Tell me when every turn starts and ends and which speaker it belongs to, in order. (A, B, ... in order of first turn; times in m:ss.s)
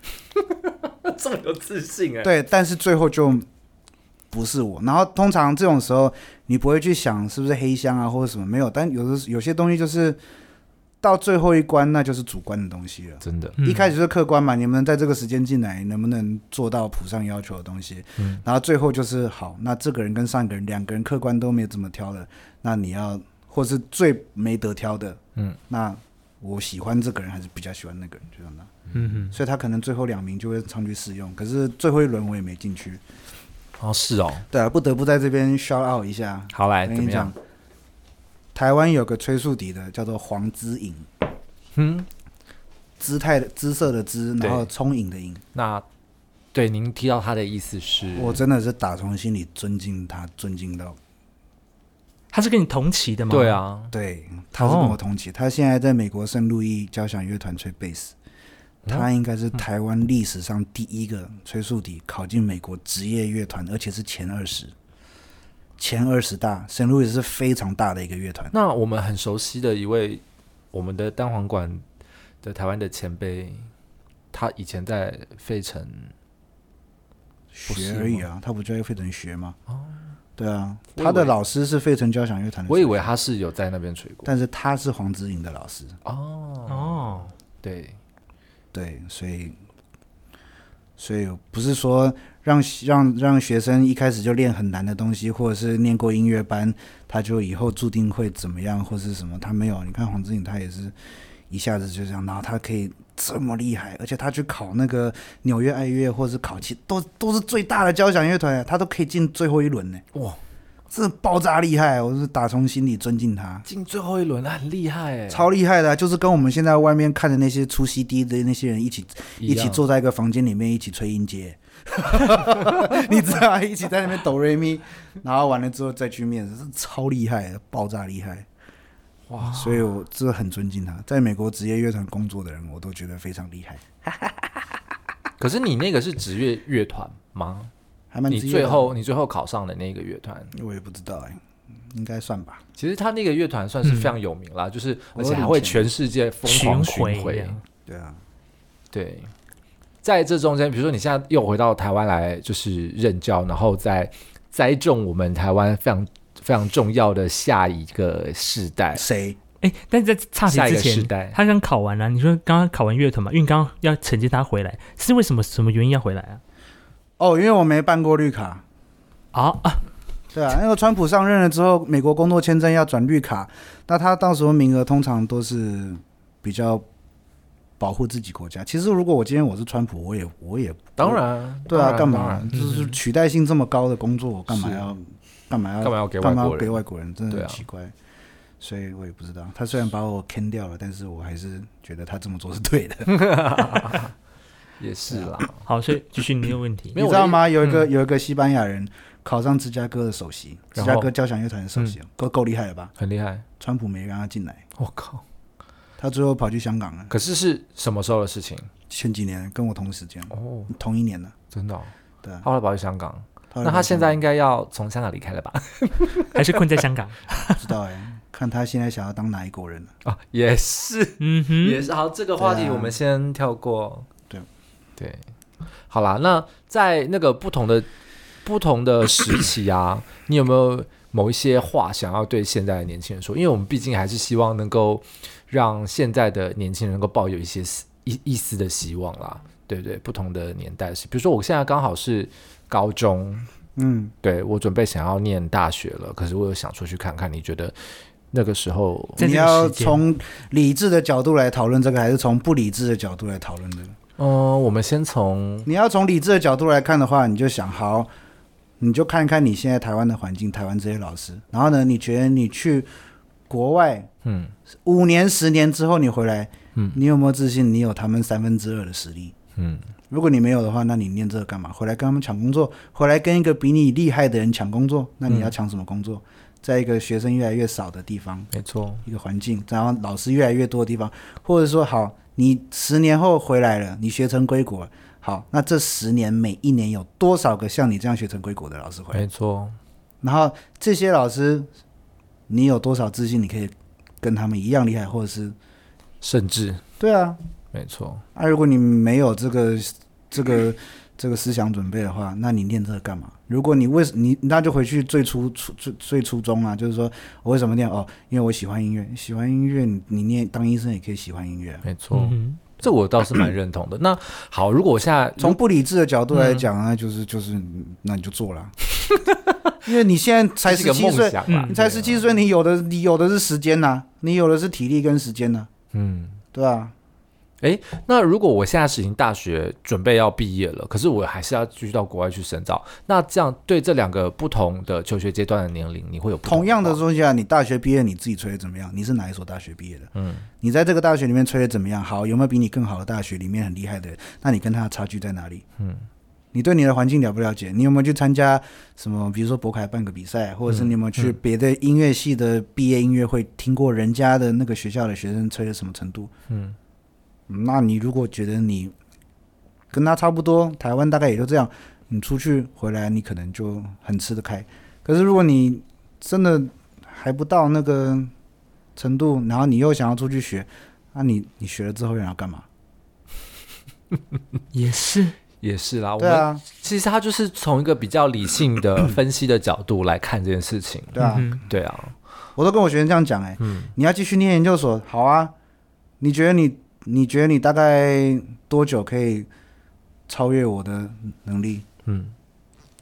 0:00.4-0:02.3 A
0:02.2-0:03.5 B
0:04.3-0:10.2 B
0:11.0-0:25.2 B
0:13.2-0:13.6 A
0:13.6-0:13.9 C
0:25.7-0:28.7 B
0:28.9-0:29.4 C
0:29.3-0:33.0 B
0:33.8-0:34.5 A
0:34.5-0:37.4 B
0:36.5-0:37.3 A
0:38.6-0:41.1 B
0:41.8-0:42.1 A
0:43.0-0:45.4 B
0:44.4-0:44.7 A
0:45.5-0:45.8 A
0:46.5-0:48.4 A
0:48.2-0:51.0 B
0:52.3-0:53.6 C
0:53.3-0:53.9 A
0:53.9-0:58.1 B
0:54.6-0:55.0 C
0:58.9-1:04.7 B
1:05.8-1:08.5 B
1:08.5-1:11.8 A
1:12.4-1:13.7 A
1:14.3-1:16.1 A
1:17.5-1:19.6 B
1:17.7-1:18.2 A
1:19.7-1:20.0 A
1:20.4-1:23.1 B
1:21.0-1:21.4 A
1:22.7-1:24.3 A
1:24.2-1:26.0 B
1:26.0-1:28.0 A
1:26.7-1:27.3 C
1:28.7-1:29.6 B
1:31.0-1:41.0 B
1:41.5-1:50.0 B
1:50.9-1:53.7 B
1:53.7-1:55.5 A
1:55.3-2:08.5 B
1:59.4-1:59.8 A
2:09.3-2:09.7 A
2:09.5-2:14.5 B
2:15.4-2:17.7 A
2:18.1-2:19.0 B
2:18.3-2:20.5 A
2:20.5-2:21.4 B
2:21.9-2:22.6 B
2:22.8-2:27.6 A
2:23.8-2:24.2 C
2:25.2-2:25.9 B
2:26.5-2:27.6 C
2:27.9-2:28.2 B
2:28.9-2:29.3 A
2:30.0-2:39.0 A
2:38.9-2:39.4 B
2:39.6-2:46.4 C
2:40.5-2:41.4 A
2:47.2-2:48.6 B
2:49.3-2:49.8 C
2:50.3-2:56.9 B
2:57.8-3:07.9 B
3:01.0-3:02.5 A
3:02.5-3:03.0 C
3:04.5-3:04.9 A
3:05.8-3:07.6 A
3:08.6-3:14.1 B
3:13.1-3:14.1 A
3:14.8-3:15.6 A
3:15.1-3:15.4 B
3:15.6-3:17.0 C
3:16.9-3:17.9 A
3:17.0-3:22.9 B
3:20.8-3:21.1 A
3:23.0-3:23.4 A
3:23.6-3:24.6 B
3:24.8-3:25.2 A
3:26.0-3:27.1 B
3:27.1-3:28.7 A
3:28.9-3:31.4 B
3:30.3-3:30.7 A
3:31.5-3:36.6 A
3:33.5-3:34.2 B
3:36.3-3:37.6 C
3:37.6-3:39.9 B
3:40.0-3:44.1 A
3:41.2-3:41.8 C
3:42.4-3:43.0 B
3:45.0-3:45.2 A
3:45.9-3:47.9 A
3:48.4-4:03.5 A
4:03.8-4:04.1 B
4:04.2-4:07.8 A
4:08.3-4:09.2 A
4:09.2-4:10.0 C
4:09.2-4:14.0 B
4:14.2-4:15.7 A
4:15.6-4:18.1 B
4:18.8-4:22.9 B
4:23.5-4:24.1 B
4:24.2-4:24.5 A
4:24.8-4:29.4 B
4:29.6-4:29.9 A
4:30.1-4:38.5 B
4:35.3-4:35.5 A
4:38.5-4:39.0 A
4:39.0-4:49.2 B
4:49.1-4:49.8 A
4:50.2-4:51.7 B
4:52.5-4:55.6 B
4:56.2-4:56.8 A
4:57.0-4:57.4 B
4:57.7-4:58.2 A
4:58.4-5:11.8 B
5:11.8-5:15.6 A
5:12.1-5:12.6 C
5:15.4-5:18.8 B
5:16.3-5:16.7 A
5:19.1-5:19.4 A
5:19.8-5:25.7 B
5:20.6-5:22.2 A
5:21.5-5:21.8 C
5:25.9-5:26.4 A
5:26.5-5:26.9 B
5:27.6-5:37.0 A
5:36.5-5:40.1 B
5:40.2-5:40.5 A
5:40.6-5:45.6 B
5:45.8-5:46.1 A
5:46.5-5:56.3 B
5:50.7-5:51.4 A
5:56.5-5:56.8 A
5:57.5-5:58.9 B
5:59.9-6:08.3 B
6:09.0-6:12.6 B
6:14.7-6:15.4 C
6:15.6-6:22.2 A
6:16.2-6:16.6 B
6:21.1-6:21.6 B
6:21.2-6:21.6 C
6:22.6-6:25.5 B
6:23.6-6:23.9 A
6:26.2-6:29.5 B
6:30.3-6:31.9 B
6:32.1-6:32.3 A